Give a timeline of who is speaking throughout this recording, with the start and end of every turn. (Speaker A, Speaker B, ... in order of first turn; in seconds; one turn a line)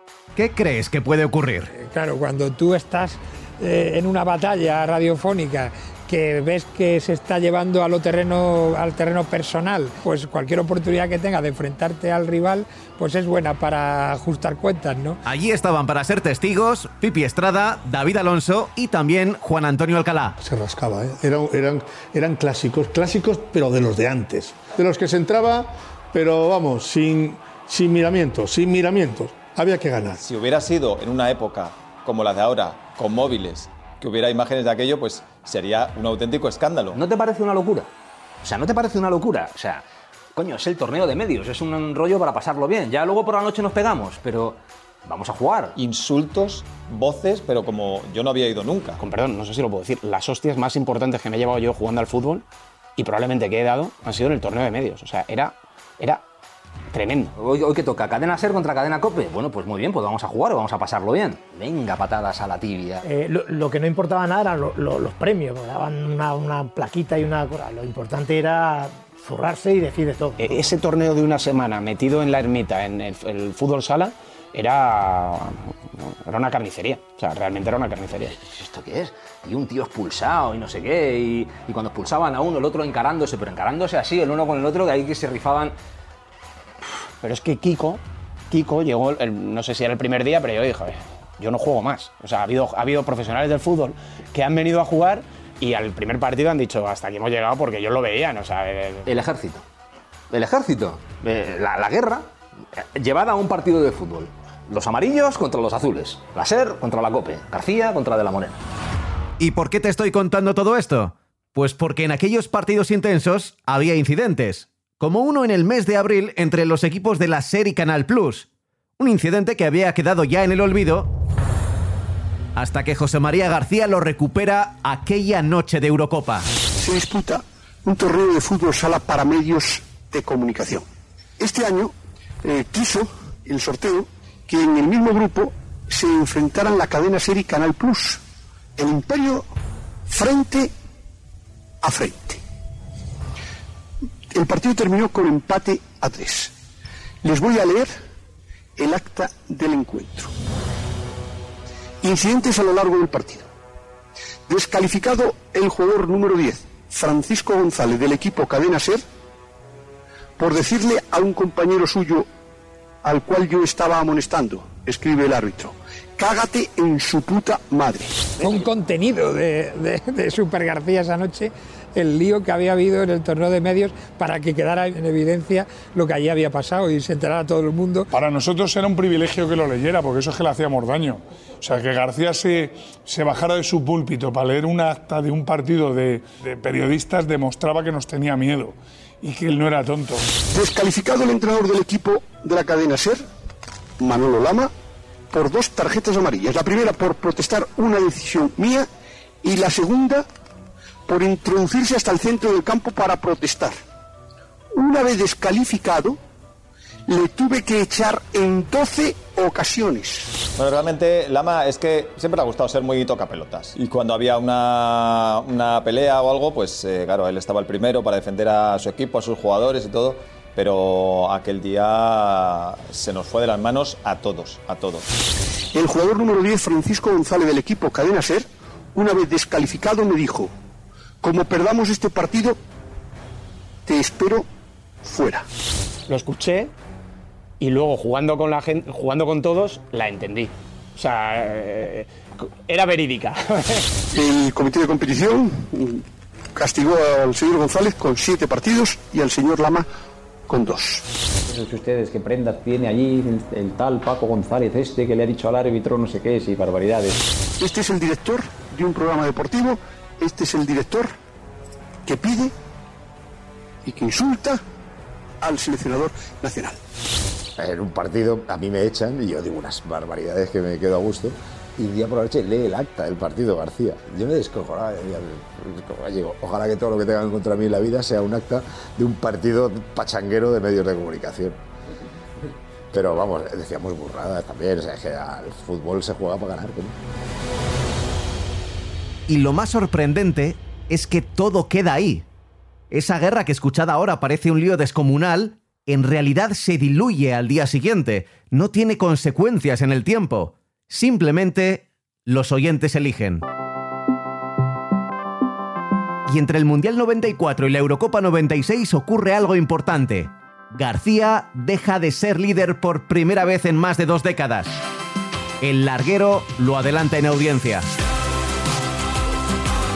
Speaker A: 0.3-1.7
Speaker B: 1.7-15.2
Speaker A: 15.2-20.4
Speaker C: 20.4-30.2
Speaker D: 30.2-37.0
Speaker E: 36.9-37.9
Speaker E: 38.4-45.8
Speaker D: 45.8-49.0
Speaker F: 49.0-52.4
Speaker F: 53.0-56.2
Speaker F: 56.9-57.3
Speaker E: 57.4-63.0
Speaker G: 63.0-70.6
Speaker F: 70.4-78.3
Speaker E: 78.3-85.7
Speaker F: 87.2-99.1
Speaker E: 99.0-99.6
Speaker E: 100.3-108.6
Speaker A: 109.4-118.5
Speaker A: 119.0-121.1
Speaker A: 122.5-126.5
Speaker H: 126.8-130.8
Speaker H: 131.4-131.9
Speaker H: 132.4-138.2
Speaker H: 138.8-139.4
Speaker H: 140.1-140.7
Speaker H: 141.8-142.4
Speaker H: 144.3-146.5
Speaker H: 147.2-147.9
Speaker H: 148.8-150.3
Speaker H: 152.0-153.5
Speaker H: 154.5-159.0
Speaker H: 160.4-162.3
Speaker H: 163.0-168.3
Speaker B: 168.4-178.1
Speaker I: 178.1-190.2
Speaker H: 190.5-193.2
Speaker H: 194.0-194.7
Speaker H: 195.3-198.9
Speaker H: 199.4-200.2
Speaker H: 201.1-203.8
Speaker H: 204.7-206.2
Speaker H: 207.1-210.3
Speaker D: 210.6-225.1
Speaker H: 225.7-230.5
Speaker H: 231.2-232.6
Speaker H: 233.8-234.4
Speaker H: 235.0-235.4
Speaker F: 236.1-236.7
Speaker F: 237.6-243.9
Speaker H: 244.1-246.0
Speaker H: 246.6-249.9
Speaker H: 250.5-251.0
Speaker J: 251.6-257.1
Speaker H: 257.6-261.1
Speaker H: 262.1-262.5
Speaker H: 263.8-264.6
Speaker H: 265.4-266.8
Speaker K: 267.6-281.6
Speaker K: 282.9-286.9
Speaker A: 289.3-292.2
Speaker A: 292.9-303.4
Speaker A: 306.3-314.8
Speaker A: 315.6-317.9